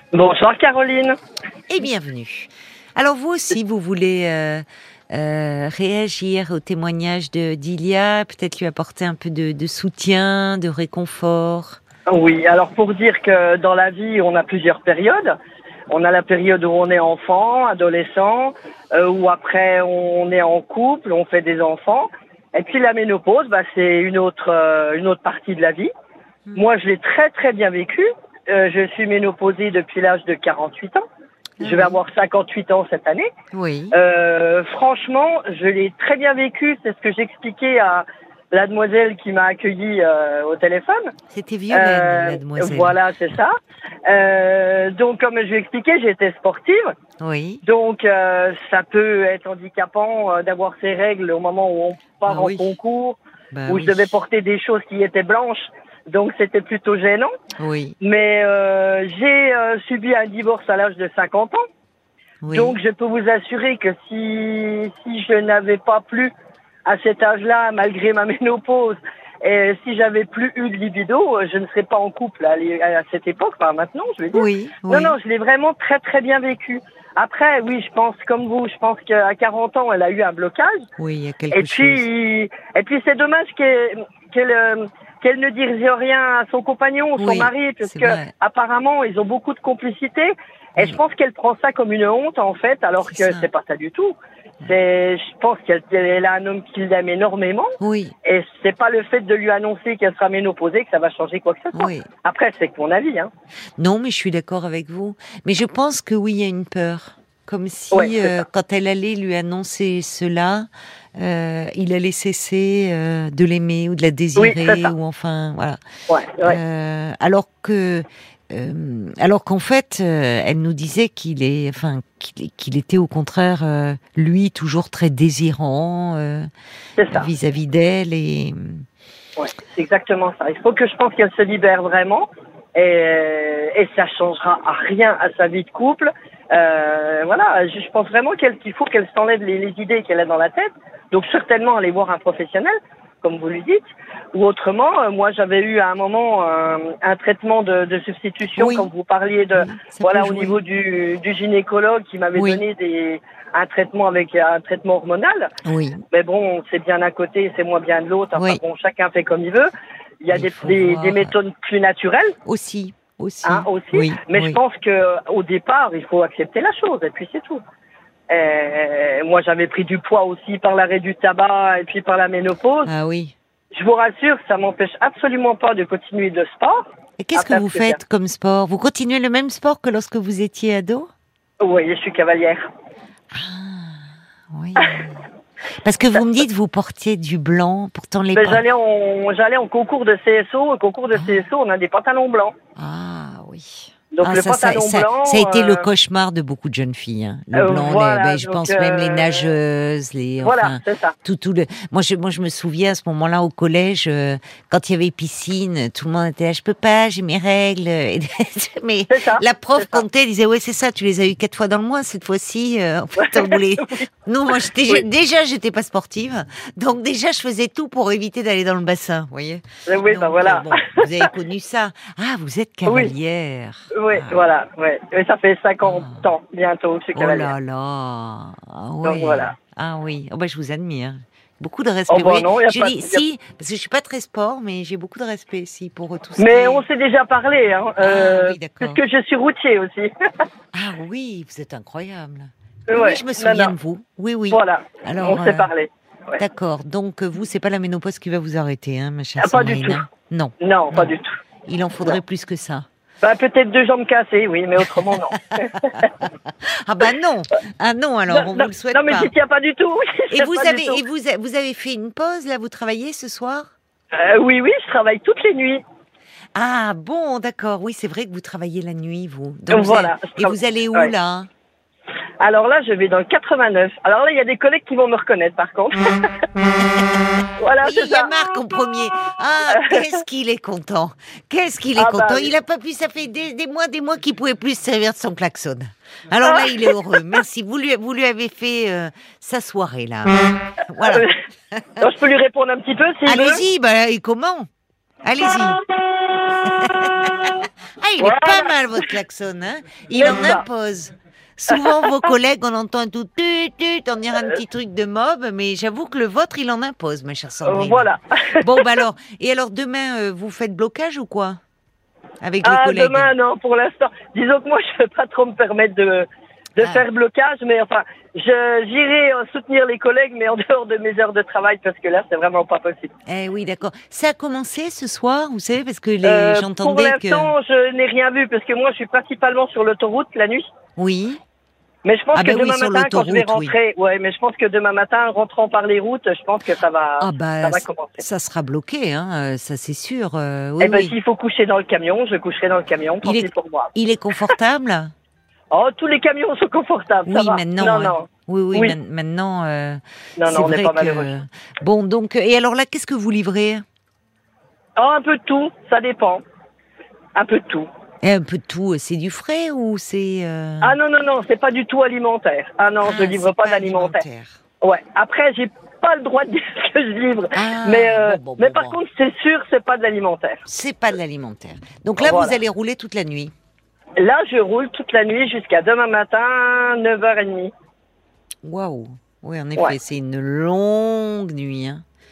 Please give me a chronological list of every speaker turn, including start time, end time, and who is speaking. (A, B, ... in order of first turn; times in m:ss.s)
0:00.1-0:01.2 A
0:01.7-0:11.8 B
0:12.1-0:15.4 A
0:15.9-0:25.9 A
0:26.6-0:31.0 A
0:31.6-0:32.0 B
0:31.6-0:33.3 A
0:33.5-0:34.0 B
0:33.9-0:41.1 A
0:41.3-0:43.0 B
0:41.7-0:43.6 A
0:44.1-0:47.0 A
0:47.2-0:47.6 B
0:47.6-0:57.3 A
0:52.3-0:52.7 B
0:53.5-0:54.1 B
0:57.6-0:58.0 B
0:58.0-1:01.6 A
1:02.4-1:02.8 B
1:02.5-1:06.3 A
1:06.9-1:20.9 A
1:14.3-1:15.2 B
1:21.0-1:22.0 B
1:21.5-1:43.3 A
1:27.2-1:28.3 B
1:33.0-1:33.5 B
1:37.8-1:38.1 B
1:41.7-1:42.1 B
1:43.8-1:55.8 B
1:47.9-1:48.4 A
1:54.4-1:54.9 A
1:56.1-1:56.6 A
1:56.4-2:06.5 B
2:07.0-2:07.2 A
2:07.1-2:08.8 B
2:09.4-2:35.5 A
2:28.6-2:28.9 B
2:29.6-2:30.6 B
2:32.4-2:32.6 B
2:35.6-2:36.0 B
2:36.1-2:39.7 A
2:40.2-2:42.3 A
2:40.3-2:41.3 B
2:42.5-2:44.6 B
2:43.4-2:47.6 A
2:48.3-2:52.9 A
2:52.9-2:53.3 B
2:53.7-2:58.0 A
2:57.2-3:01.1 B
3:01.6-3:02.7 A
3:03.3-3:05.3 B
3:05.8-3:08.6 B
3:08.3-3:12.6 A
3:11.1-3:11.4 B
3:12.8-3:44.4 B
3:14.1-3:15.9 A
3:17.5-3:19.5 A
3:20.4-3:21.2 A
3:29.1-3:30.0 A
3:33.2-3:34.0 A
3:39.9-3:41.3 A
3:42.9-3:43.1 A
3:43.9-3:47.5 A
3:45.8-3:46.2 B
3:47.2-3:56.8 B
3:49.0-3:49.5 A
3:52.1-3:53.2 A
3:56.4-4:00.1 A
3:58.0-3:59.0 B
4:00.7-4:05.7 B
4:02.9-4:03.7 A
4:04.5-4:06.4 A
4:06.4-4:11.1 B
4:09.4-4:10.0 A
4:10.6-4:11.3 A
4:11.7-4:12.9 B
4:13.2-4:16.1 A
4:15.6-4:16.3 B
4:16.8-4:19.3 B
4:18.3-4:21.0 A
4:20.3-4:23.7 B
4:24.1-4:25.8 A
4:26.6-4:31.5 B
4:29.7-4:31.1 A
4:32.4-4:36.2 A
4:37.6-4:38.3 A
4:37.8-4:52.0 B
4:39.7-4:40.1 A
4:42.0-4:42.5 A
4:46.4-4:46.9 A
4:51.0-4:51.4 A
4:52.0-4:53.6 A
4:53.2-4:54.7 B
4:55.2-4:55.8 B
4:56.6-5:08.1 B
4:58.2-4:58.7 A
5:00.2-5:00.6 A
5:01.7-5:02.3 A
5:07.6-5:08.8 A
5:08.6-5:11.6 B
5:12.4-5:13.3 B
5:12.6-5:23.1 A
5:23.3-5:27.5 B
5:26.2-5:30.7 A
5:31.0-5:31.4 B
5:32.0-5:38.2 A
5:32.4-5:33.7 B
5:37.2-5:41.1 B
5:40.8-5:43.9 A
5:43.2-5:45.1 B
5:45.7-5:49.0 A
5:47.2-5:53.8 B
5:50.4-5:51.3 A
5:55.0-5:56.4 A
5:57.4-5:57.9 A
5:58.2-6:01.0 B
6:00.8-6:04.2 A
6:03.0-6:04.6 B
6:04.8-6:10.6 A
6:07.5-6:09.0 B
6:10.7-6:13.5 B
6:12.2-6:12.6 A
6:14.2-6:17.7 A
6:18.6-6:22.0 B